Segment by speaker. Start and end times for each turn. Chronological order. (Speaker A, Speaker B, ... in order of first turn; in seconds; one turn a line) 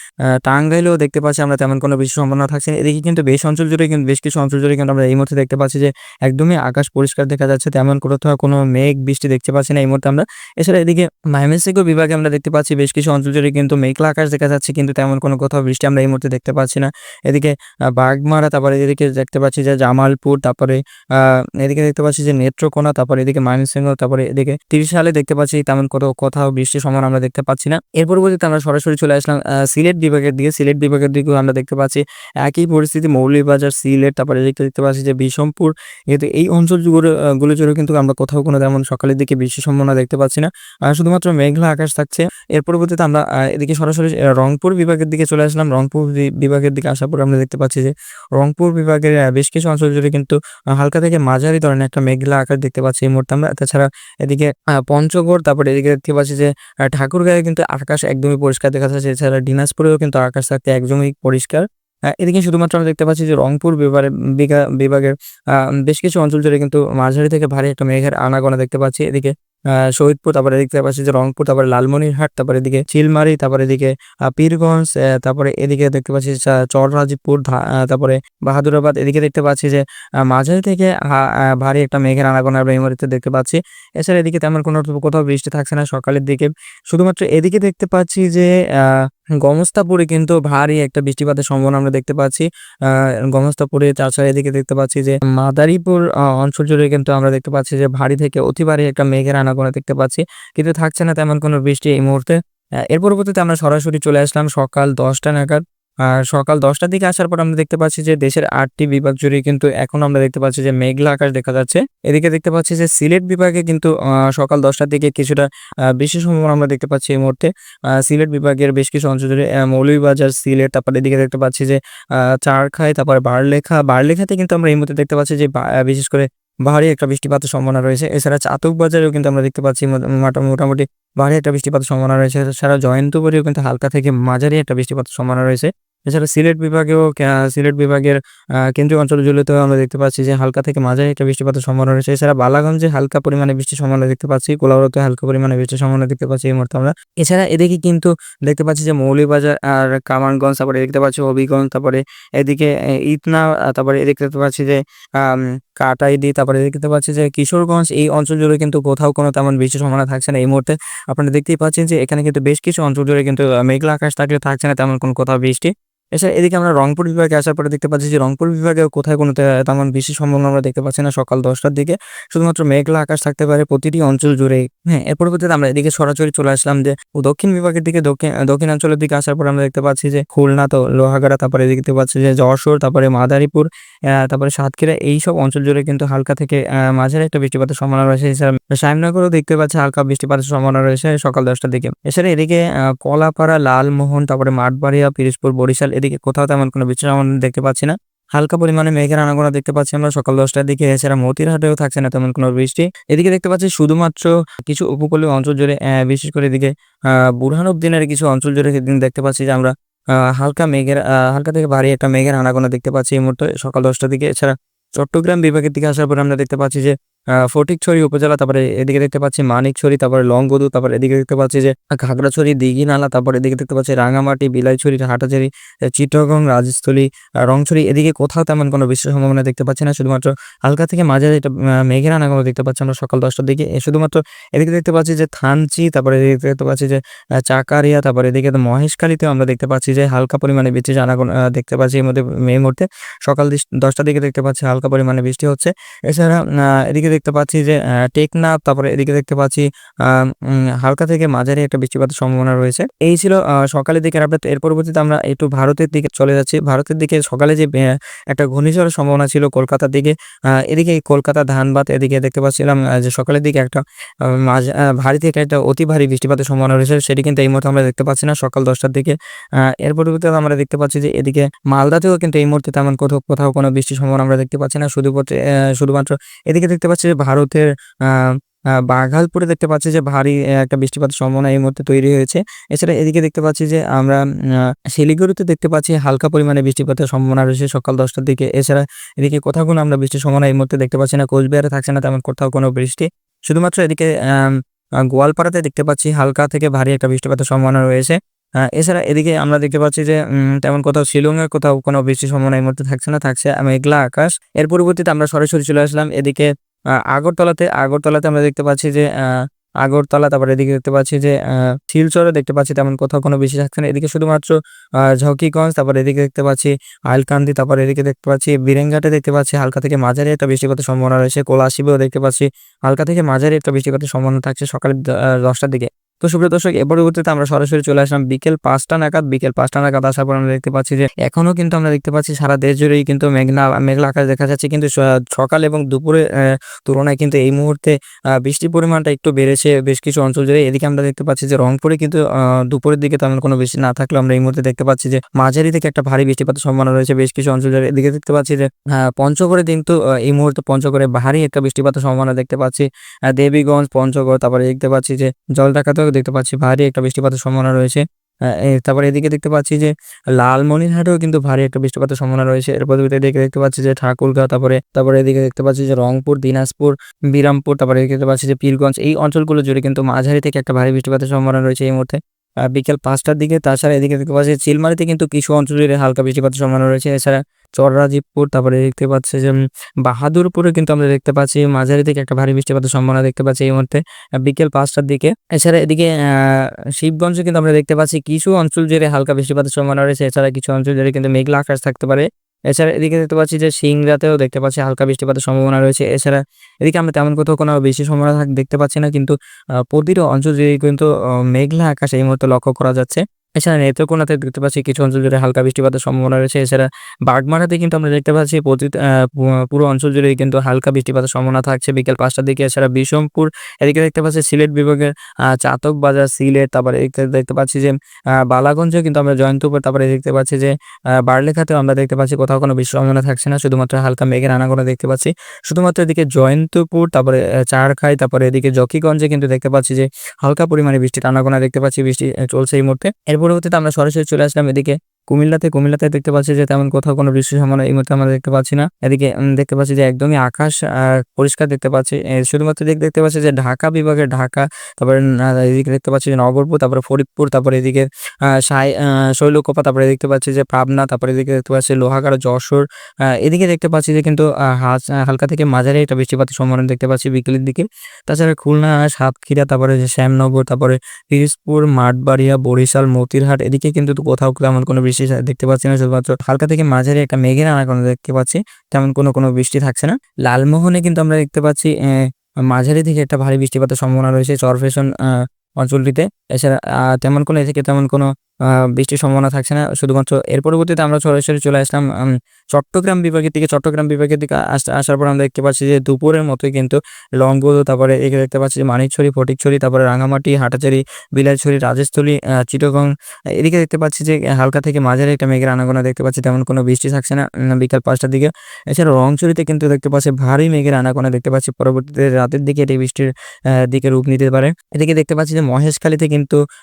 Speaker A: 0.4-61.6
Speaker A: 62.2-69.3
Speaker A: 69.9-102.3
Speaker A: 102.9-115.5
Speaker A: 116.0-121.8
Speaker A: 122.4-138.2
Speaker A: 138.7-209.7
Speaker A: 210.3-216.9
Speaker A: 217.4-260.1
Speaker A: 260.7-269.1
Speaker A: 269.7-298.1
Speaker A: 298.7-306.5
Speaker A: 307.1-309.3
Speaker A: 309.8-372.2
Speaker A: 372.7-399.3
Speaker A: 399.9-420.7
Speaker A: 421.2-452.8
Speaker A: 453.4-478.3
Speaker A: 478.9-503.3
Speaker A: 503.9-506.6